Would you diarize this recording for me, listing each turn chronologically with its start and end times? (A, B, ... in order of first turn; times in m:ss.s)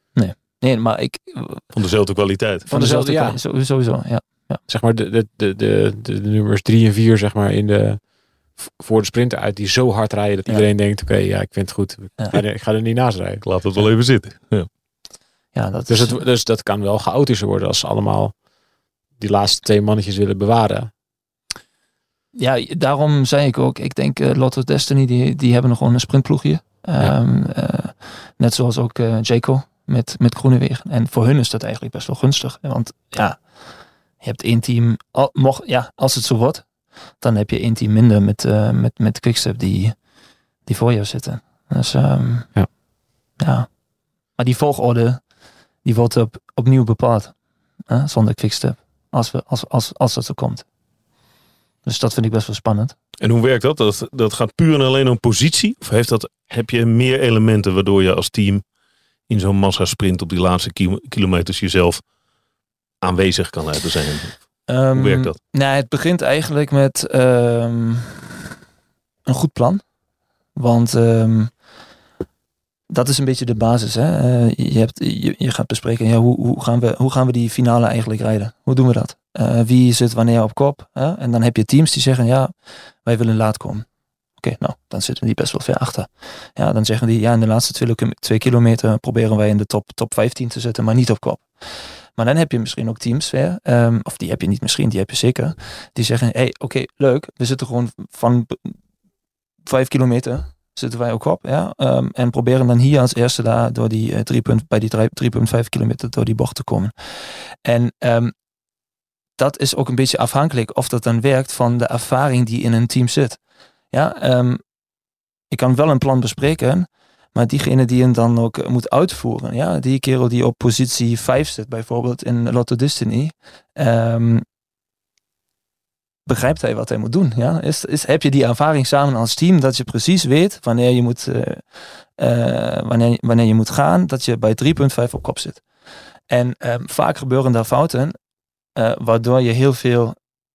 0:00.1-0:01.6 A
0:01.7-0:02.7 B
0:02.7-0:04.6 A
0:02.7-0:03.4 C
0:04.7-0:13.4 C
0:13.4-0:14.7 B
0:15.5-0:16.2 A
0:15.9-0:18.4 C
0:19.2-0:20.9 C
0:22.4-0:33.7 A
0:34.2-0:36.7 A
0:37.2-0:40.0 A
0:40.6-0:42.6 A
0:43.4-0:43.7 A
0:44.4-0:45.2 A
0:45.8-0:47.3 A
0:47.9-0:50.6 A
0:51.8-0:52.9 A
0:53.2-0:58.6 B
0:59.3-1:02.0 B
1:03.0-1:05.4 B
1:04.7-1:08.3 A
1:09.2-1:09.8 A
1:10.5-1:11.6 A
1:12.9-1:23.8 A
1:24.4-1:38.8 A
1:39.6-1:48.3 A
1:49.4-1:53.4 A
1:53.9-1:54.6 A
1:55.5-2:04.4 A
2:06.2-2:15.6 A
2:16.3-2:18.2 A
2:18.8-2:20.2 A